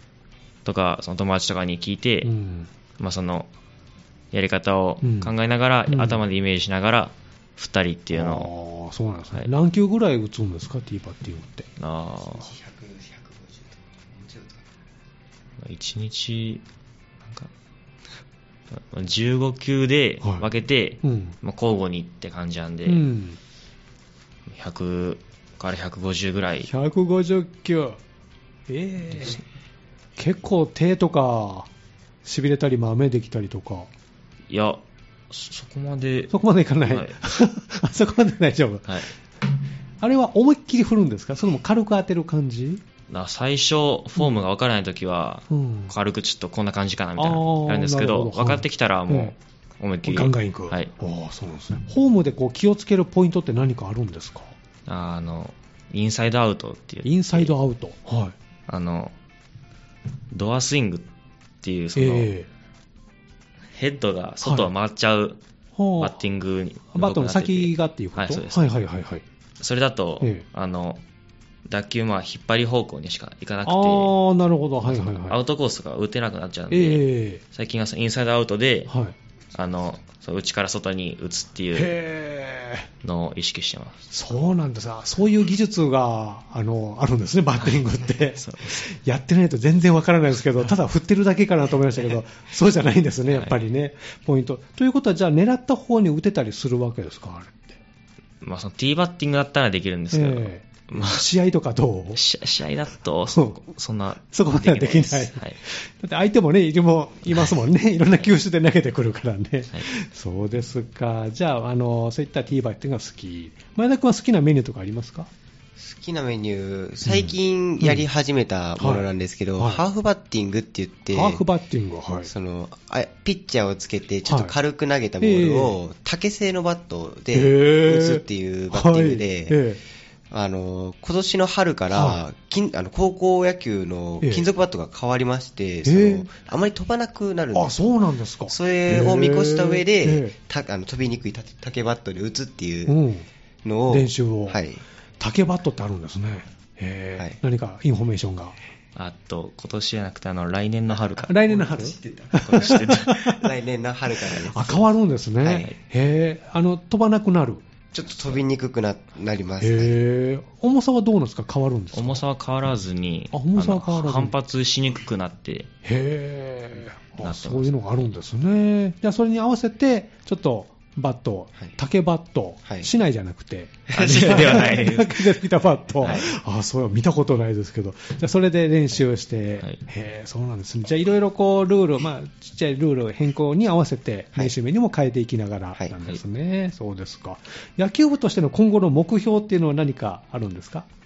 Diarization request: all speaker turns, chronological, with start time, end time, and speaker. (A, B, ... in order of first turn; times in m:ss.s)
0:00.6-0:02.3 A
0:02.2-0:02.7 B
0:03.0-0:03.5 A
0:04.3-0:08.5 A
0:05.0-0:05.3 B
0:05.9-0:06.2 B
0:08.1-0:11.7 B
0:11.8-0:12.5 A
0:12.2-0:14.7 C
0:15.6-0:16.6 A
0:17.2-0:17.5 A
0:18.7-0:23.0 A
0:21.0-0:21.4 B
0:22.9-0:23.4 B
0:24.5-0:26.7 A
0:26.7-0:28.0 B
0:28.7-0:29.4 B
0:30.2-0:31.7 B
0:32.2-0:33.9 B
0:34.5-0:37.2 A
0:36.3-0:39.0 B
0:40.0-0:42.8 B
0:43.1-0:50.9 A
0:45.5-0:45.9 B
0:47.2-0:49.3 B
0:50.0-0:54.5 B
0:54.9-0:57.5 A
0:57.0-0:58.3 B
0:58.7-0:59.1 A
1:00.3-1:01.1 A
1:01.6-1:02.3 A
1:02.0-1:02.5 B
1:03.7-1:05.4 A
1:04.4-1:04.7 B
1:05.8-1:06.2 B
1:06.0-1:08.7 A
1:06.9-1:09.2 B
1:09.6-1:11.0 A
1:11.6-1:14.2 A
1:13.6-1:15.4 B
1:14.8-1:18.9 A
1:16.7-1:17.4 B
1:18.9-1:19.2 B
1:19.5-1:21.9 A
1:21.7-1:22.9 B
1:23.0-1:24.0 A
1:24.1-1:37.8 B
1:28.4-1:28.8 A
1:33.3-1:33.6 A
1:38.4-1:41.3 A
1:40.1-1:42.2 B
1:42.2-1:45.6 A
1:43.3-1:43.6 B
1:44.3-1:55.3 B
1:55.8-2:01.4 C
1:57.1-1:58.0 B
1:58.8-1:59.8 B
2:01.1-2:02.3 B
2:02.3-2:09.6 C
2:04.3-2:04.5 B
2:05.2-2:05.8 B
2:07.3-2:09.8 B
2:10.3-2:17.8 C
2:11.9-2:12.2 B
2:14.2-2:14.5 B
2:15.8-2:16.3 B
2:17.5-2:20.4 B
2:18.5-2:23.0 C
2:22.9-2:23.3 B
2:23.6-2:24.8 C
2:23.9-2:24.6 B
2:25.2-2:28.6 B
2:29.0-2:31.4 A
2:30.9-2:34.8 C
2:31.3-2:33.5 B
2:32.4-2:33.2 A
2:34.4-2:37.6 B
2:35.4-2:35.7 C
2:37.9-2:40.0 C
2:39.6-2:42.2 B
2:41.9-2:45.7 A
2:43.3-2:44.3 B
2:45.8-3:10.9 B
2:47.2-2:48.1 A
2:53.9-2:54.7 C
2:53.9-2:55.4 A
2:56.0-2:56.3 A